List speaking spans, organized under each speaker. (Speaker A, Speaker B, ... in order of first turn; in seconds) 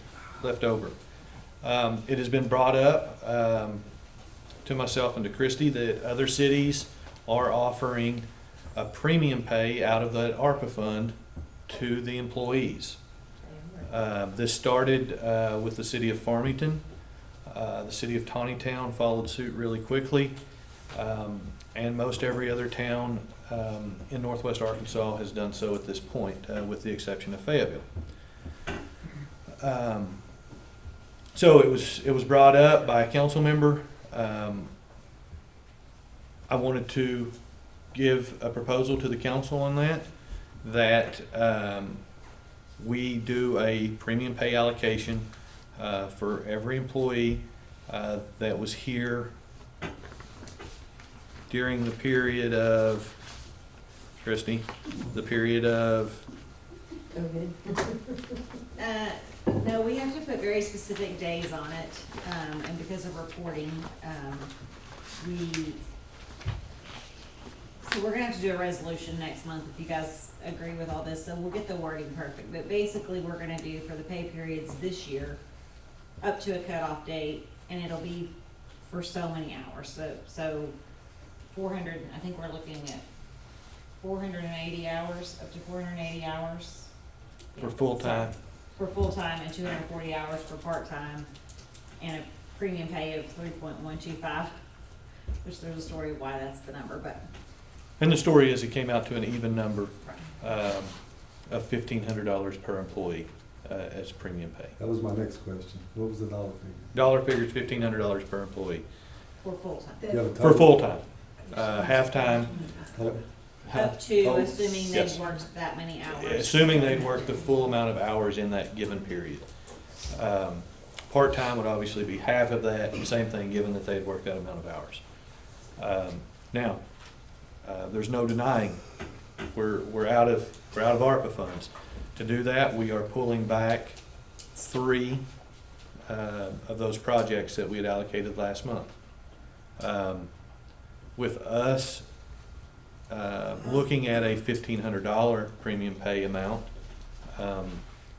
Speaker A: 0.4-0.9, 1.6-3.8, 4.7-11.1, 11.7-13.0, 13.9-16.8, 17.5-20.4, 20.9-27.9, 29.6-30.2, 31.3-34.7, 36.5-37.3, 37.9-40.0, 40.6-42.0, 42.8-45.3, 45.8-49.3, 51.5-53.2, 54.2-56.2, 87.6-88.3, 98.0-100.9, 101.5-104.7, 106.9-108.8, 110.4-112.5, 113.7-114.0, 114.9-115.2, 116.1-119.4, 120.1-125.0, 125.8-126.8, 127.6-128.8, 129.5-134.0, 134.6-135.2, 136.1-138.9, 139.8-140.3, 141.2-142.1, 143.1-146.7, 147.4-147.8
Speaker B: 13.4-13.9, 58.8-64.5, 65.2-65.8, 67.8-75.4, 76.2-78.3, 78.8-80.7, 81.5-83.0, 84.0-86.9, 87.5-91.3, 92.0-94.5, 95.4-97.2, 109.4-110.0, 113.7-117.6
Speaker C: 57.1-58.0, 110.0-110.4, 111.5-113.0
Speaker D: 104.8-106.9, 110.1-110.8, 112.9-113.2, 114.2-114.8